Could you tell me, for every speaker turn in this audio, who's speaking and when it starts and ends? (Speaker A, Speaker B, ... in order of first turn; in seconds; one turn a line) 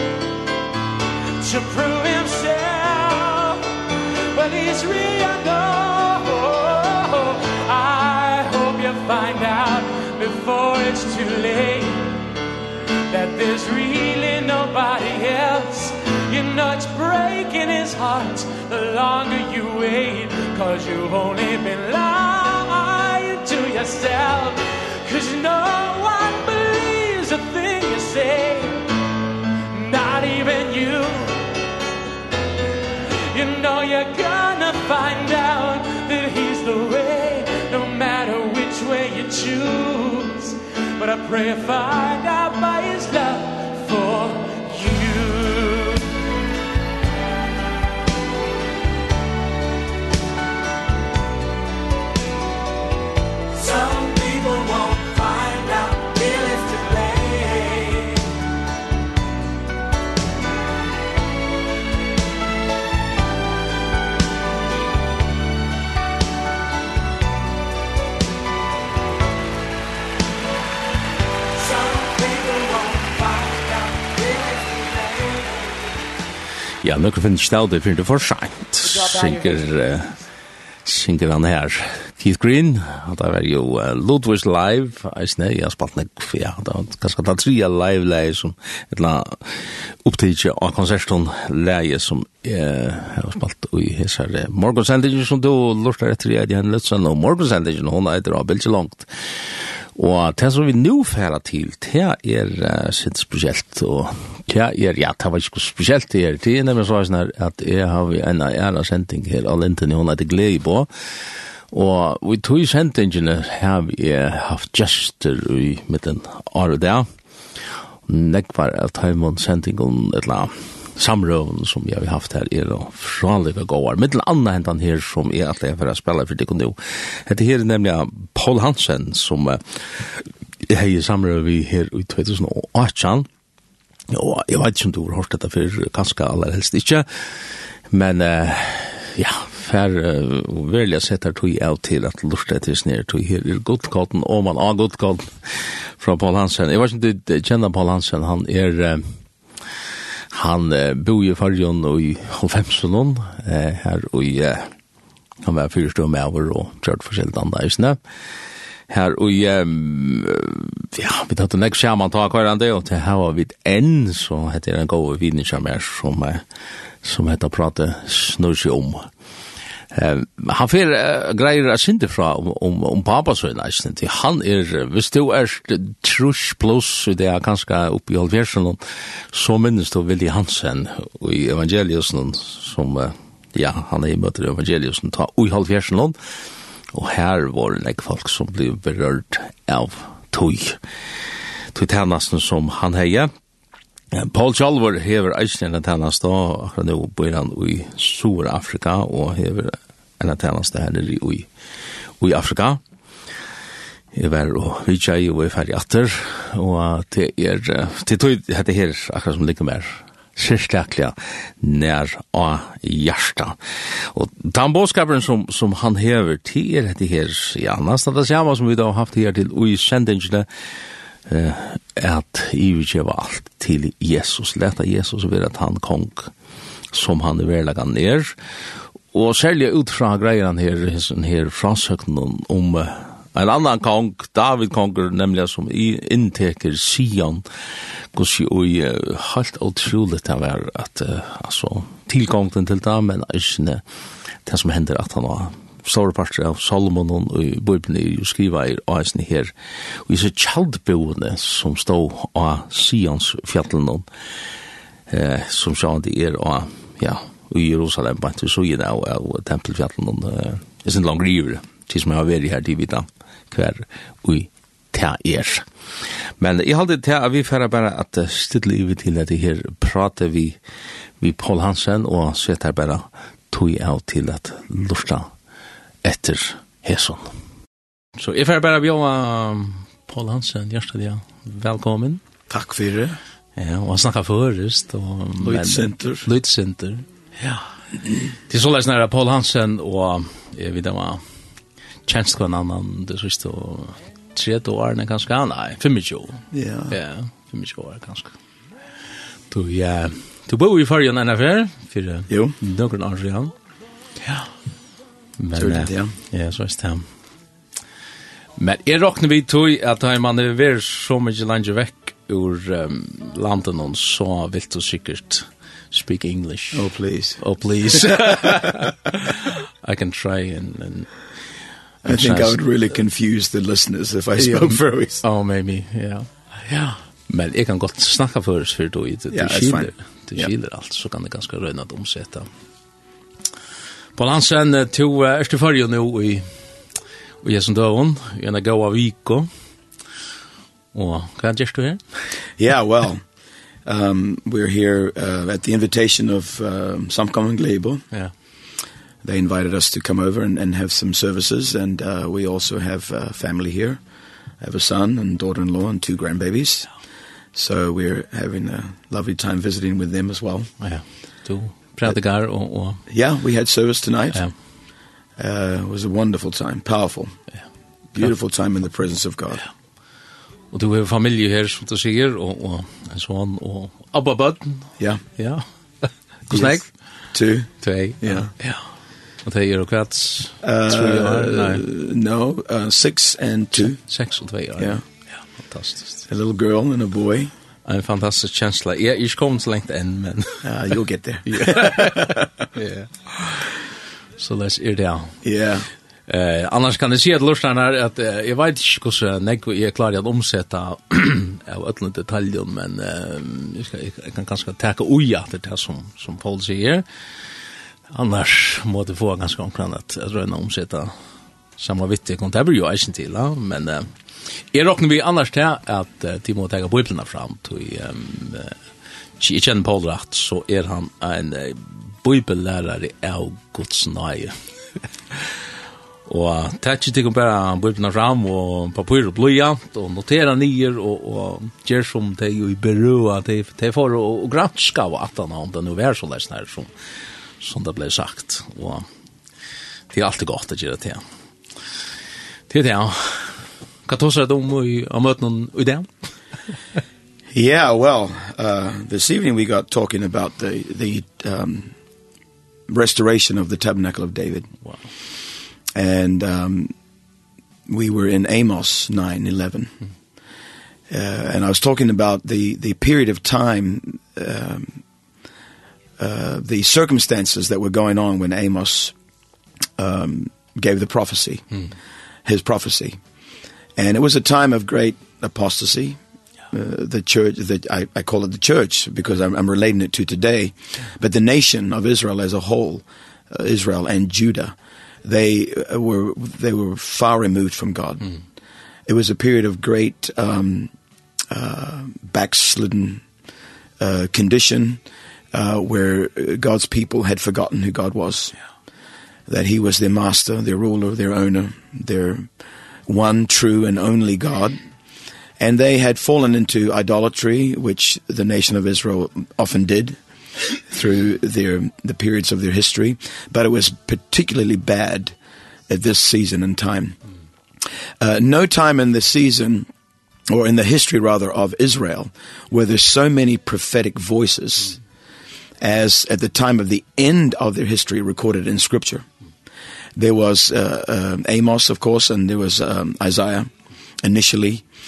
Speaker A: 1.4-12.2
Speaker A: 13.1-28.9
Speaker A: 29.7-31.5
Speaker A: 33.3-46.1
Speaker A: 53.5-58.3
Speaker A: 71.6-75.4
Speaker B: 76.8-80.2
Speaker A: 78.8-80.0
Speaker B: 80.8-110.9
Speaker B: 111.7-117.1
Speaker B: 118.1-133.3
Speaker B: 134.1-149.2
Speaker B: 150.3-154.7
Speaker B: 155.4-158.0
Speaker B: 158.9-166.4
Speaker B: 167.0-169.1
Speaker B: 169.9-178.8
Speaker B: 179.3-186.2
Speaker B: 186.9-190.8
Speaker B: 191.7-193.3
Speaker B: 194.1-201.5
Speaker B: 202.2-202.8
Speaker B: 204.1-220.5
Speaker B: 221.3-226.3
Speaker B: 226.9-228.4
Speaker B: 229.1-237.5
Speaker B: 238.1-243.8
Speaker B: 244.5-249.5
Speaker B: 250.1-254.1
Speaker B: 255.1-265.7
Speaker B: 266.4-270.6
Speaker B: 271.2-275.3
Speaker B: 276.0-277.4
Speaker B: 278.2-282.2
Speaker C: 282.5-283.2
Speaker B: 283.6-287.1
Speaker C: 285.4-286.3
Speaker B: 288.5-291.2
Speaker B: 292.1-298.4
Speaker C: 296.5-297.0
Speaker B: 299.5-303.5
Speaker C: 302.3-302.6
Speaker B: 305.4-307.1
Speaker C: 305.6-306.1
Speaker B: 308.6-321.1
Speaker C: 316.7-318.6
Speaker B: 322.1-322.6
Speaker C: 322.1-325.2
Speaker B: 324.4-332.5
Speaker C: 329.3-330.5
Speaker B: 334.1-336.5
Speaker B: 337.4-339.5
Speaker B: 340.9-342.2
Speaker C: 342.6-343.2
Speaker C: 343.9-348.0
Speaker C: 349.2-354.0
Speaker C: 354.6-356.9
Speaker C: 357.5-360.7
Speaker B: 360.8-363.0
Speaker C: 363.1-364.4
Speaker C: 365.4-367.4
Speaker C: 368.1-369.6
Speaker B: 370.7-377.0
Speaker C: 376.5-378.5
Speaker B: 377.8-378.8
Speaker B: 379.4-381.8
Speaker C: 380.6-384.2
Speaker B: 383.8-386.3
Speaker C: 386.3-387.5
Speaker B: 387.9-390.7
Speaker C: 390.6-392.5
Speaker B: 391.5-393.5
Speaker B: 394.4-395.4
Speaker C: 395.4-395.9
Speaker B: 396.3-407.1
Speaker B: 408.1-411.1
Speaker B: 411.8-414.1
Speaker B: 414.7-418.8
Speaker B: 419.4-424.6
Speaker B: 426.3-436.9
Speaker B: 437.6-439.1
Speaker B: 440.1-441.2
Speaker B: 442.7-446.1
Speaker C: 447.5-451.9
Speaker C: 452.9-454.7
Speaker C: 455.9-456.9
Speaker C: 457.9-459.9
Speaker C: 461.1-465.0
Speaker C: 466.2-469.1
Speaker C: 470.0-471.8
Speaker C: 472.5-473.2
Speaker C: 474.0-476.2
Speaker C: 476.7-488.4
Speaker C: 489.1-490.9
Speaker C: 491.5-493.2
Speaker C: 494.0-495.0
Speaker C: 495.5-498.6
Speaker C: 499.5-502.5
Speaker C: 503.1-504.8
Speaker C: 505.6-510.2
Speaker C: 510.8-515.3
Speaker C: 515.9-517.2
Speaker C: 518.2-519.9
Speaker C: 520.5-525.0
Speaker C: 525.8-529.3
Speaker C: 530.2-533.7
Speaker C: 534.2-534.8